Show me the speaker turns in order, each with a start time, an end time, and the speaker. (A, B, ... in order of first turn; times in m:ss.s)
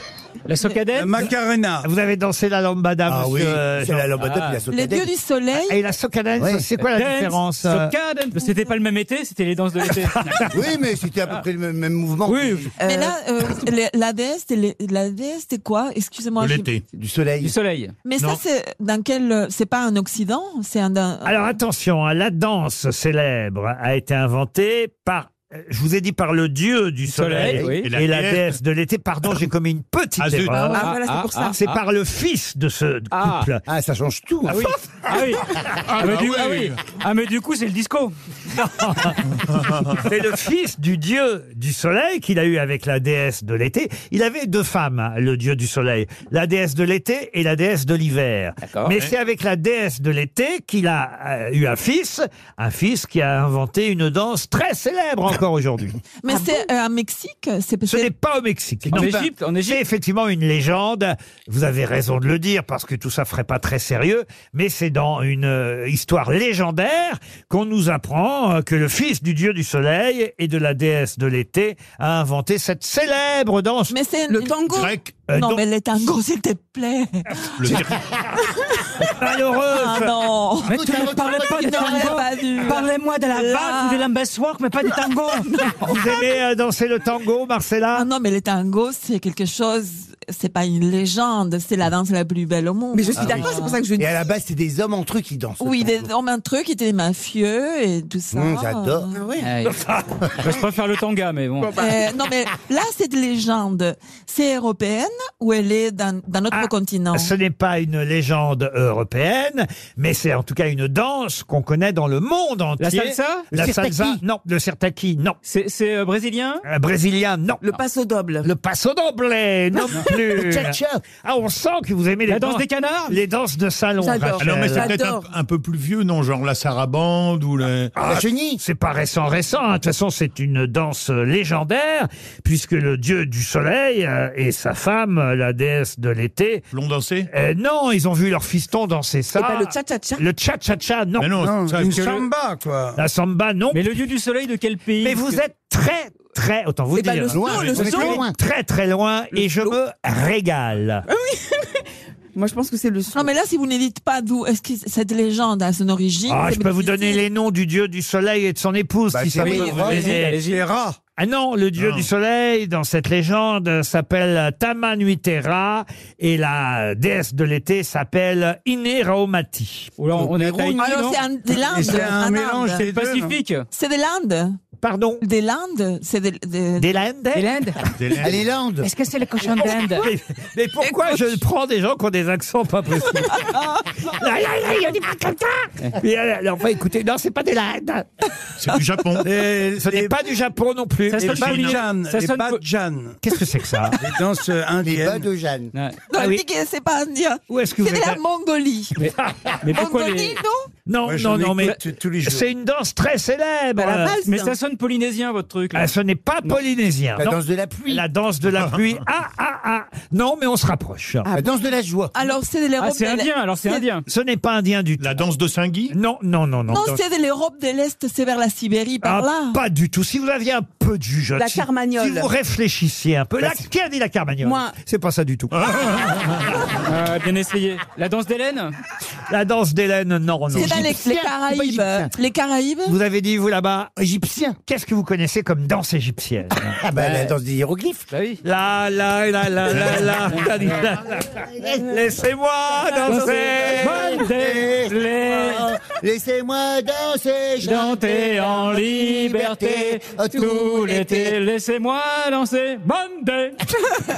0:00.4-0:01.2 A
0:00.9-0:01.9 B
0:01.8-0:04.2 C
0:03.1-0:05.1 D
0:04.2-0:04.6 A
0:04.7-0:05.8 E
0:05.5-0:07.9 C
0:06.4-0:06.6 D
0:06.9-0:10.2 A
0:10.1-0:10.5 C
0:10.5-0:12.7 D
0:12.3-0:12.6 A
0:12.8-0:16.7 E
0:12.8-0:13.2 F
0:16.4-0:16.8 G
0:16.9-0:17.5 D
0:17.4-0:17.9 A
0:18.0-0:21.6 E
0:21.2-0:30.9 C
0:27.1-0:27.9 A
0:27.8-0:28.5 G
0:30.2-0:30.8 G
0:30.7-0:31.6 F
0:30.8-0:31.8 A
0:31.5-0:33.6 C
0:33.1-0:33.5 A
0:33.7-0:34.6 D
0:34.5-0:38.1 A
0:35.8-0:36.8 G
0:38.5-0:56.0 C
0:48.6-0:48.9 A
0:56.2-0:58.1 E
0:56.3-0:56.6 F
0:57.8-1:14.0 C
0:58.9-0:59.2 B
0:58.9-0:59.8 A
1:13.9-1:18.9 E
1:14.3-1:14.8 F
1:14.7-1:15.2 G
1:15.3-1:15.6 C
1:17.6-1:17.9 G
1:17.6-1:18.0 C
1:19.0-1:20.1 C
1:19.7-1:24.1 E
1:20.6-1:25.5 A
1:20.7-1:22.2 D
1:25.3-1:26.2 E
1:25.8-1:28.1 C
1:27.9-1:33.9 E
1:32.9-1:34.1 F
1:33.2-1:36.1 D
1:35.6-1:39.3 E
1:38.3-1:39.1 D
1:39.1-1:39.5 F
1:39.4-1:39.7 A
1:39.7-1:40.2 C
1:40.3-1:41.8 A
1:41.6-1:42.0 F
1:41.7-1:47.3 E
1:46.5-1:55.4 C
1:52.8-1:53.4 A
1:53.5-1:54.2 D
1:55.4-1:56.6 A
1:56.6-1:57.8 C
1:57.6-1:58.5 F
1:58.4-2:05.0 C
2:00.3-2:01.0 D
2:02.3-2:03.2 A
2:04.0-2:05.3 F
2:04.4-2:07.9 G
2:07.9-2:16.6 C
2:08.0-2:08.6 D
2:16.7-2:17.3 G
2:17.3-2:21.5 C
2:19.4-2:20.2 F
2:21.2-2:22.0 G
2:21.4-2:23.0 B
2:21.8-2:22.3 A
2:23.0-2:23.9 C
2:23.7-2:25.4 A
2:25.0-2:31.0 C
2:26.9-2:28.0 F
2:27.3-2:28.4 D
2:27.8-2:28.2 A
2:31.1-2:31.7 F
2:32.4-2:33.3 F
2:33.1-2:37.2 E
2:36.3-2:40.4 C
2:39.1-2:40.0 D
2:39.4-2:40.6 A
2:39.5-2:39.9 E
2:40.0-2:40.9 B
2:41.2-2:49.9 C
2:41.8-2:42.1 G
2:50.0-2:51.2 A
2:50.2-2:50.8 B
2:50.8-2:52.8 E
2:51.5-2:53.4 B
2:52.8-2:53.6 A
2:53.7-2:54.6 E
2:54.8-2:55.2 C
2:55.2-2:56.9 E
2:56.8-2:57.5 C
2:57.3-2:57.8 A
2:58.0-2:58.5 G
2:58.2-2:58.9 D
2:58.8-3:00.0 A
2:59.6-3:11.8 C
3:00.8-3:01.3 E
3:03.3-3:04.0 E
3:08.6-3:09.3 G
3:09.5-3:10.1 B
3:11.1-3:12.6 A
3:11.2-3:13.2 B
3:13.2-3:14.0 C
3:13.9-3:15.3 B
3:14.8-3:15.7 D
3:15.7-3:16.0 A
3:16.1-3:19.0 E
3:16.1-3:16.4 C
3:17.5-3:18.2 C
3:19.0-3:20.4 A
3:19.2-3:19.6 C
3:19.7-3:20.5 E
3:20.9-3:24.2 C
3:21.0-3:22.4 B
3:23.8-3:25.9 A
3:25.7-3:27.4 C
3:27.2-3:28.0 D
3:27.9-3:31.3 C
3:31.3-3:32.1 D
3:32.1-3:33.8 E
3:32.8-3:34.0 A
3:34.1-3:35.2 C
3:35.0-3:35.9 G
3:35.9-3:37.0 C
3:36.7-3:39.6 E
3:39.0-3:45.5 C
3:41.4-3:42.3 F
3:44.4-3:44.7 F
3:45.6-3:46.6 G
3:46.8-3:48.7 A
3:49.3-3:50.9 C
3:50.5-3:52.1 D
3:50.6-3:53.0 E
3:52.8-3:53.9 C
3:54.0-3:54.6 D
3:54.7-3:56.7 C
3:56.8-3:58.0 D
3:57.0-3:57.3 A
3:58.1-3:58.4 A
3:58.4-4:04.2 C
4:01.2-4:02.0 D
4:03.1-4:05.7 A
4:03.1-4:11.4 D
4:07.6-4:13.6 A